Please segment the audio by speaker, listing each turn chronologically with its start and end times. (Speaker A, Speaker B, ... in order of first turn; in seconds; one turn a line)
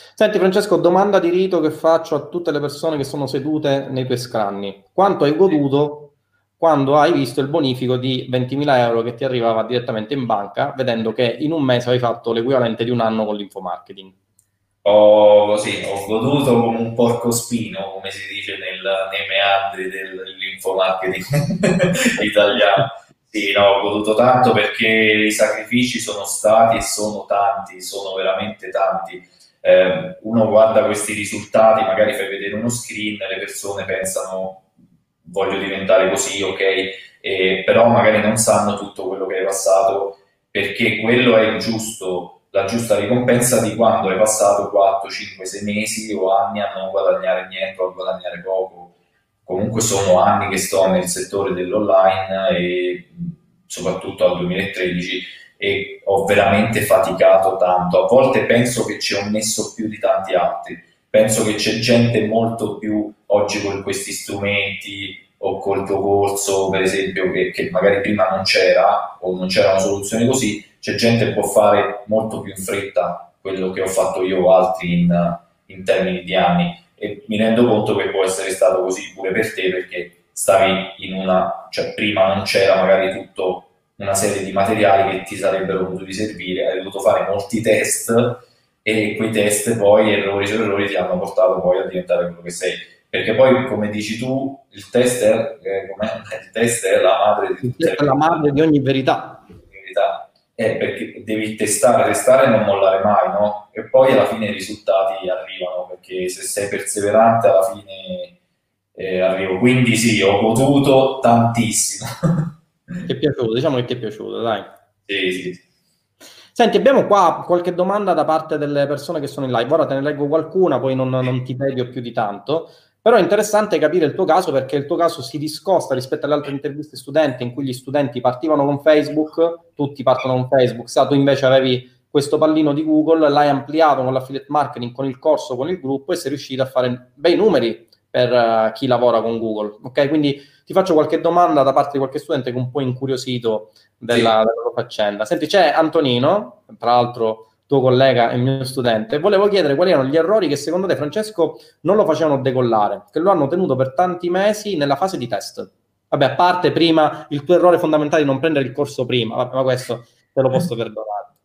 Speaker A: 0.1-14.1
Speaker B: 14.8-34.6
Speaker B: 35.2-48.9
Speaker B: 49.5-98.4
Speaker A: 97.6-99.5
Speaker B: 99.7-108.3
Speaker B: 108.9-112.5
Speaker A: 113.0-114.7
Speaker B: 115.1-115.6
Speaker A: 116.5-161.3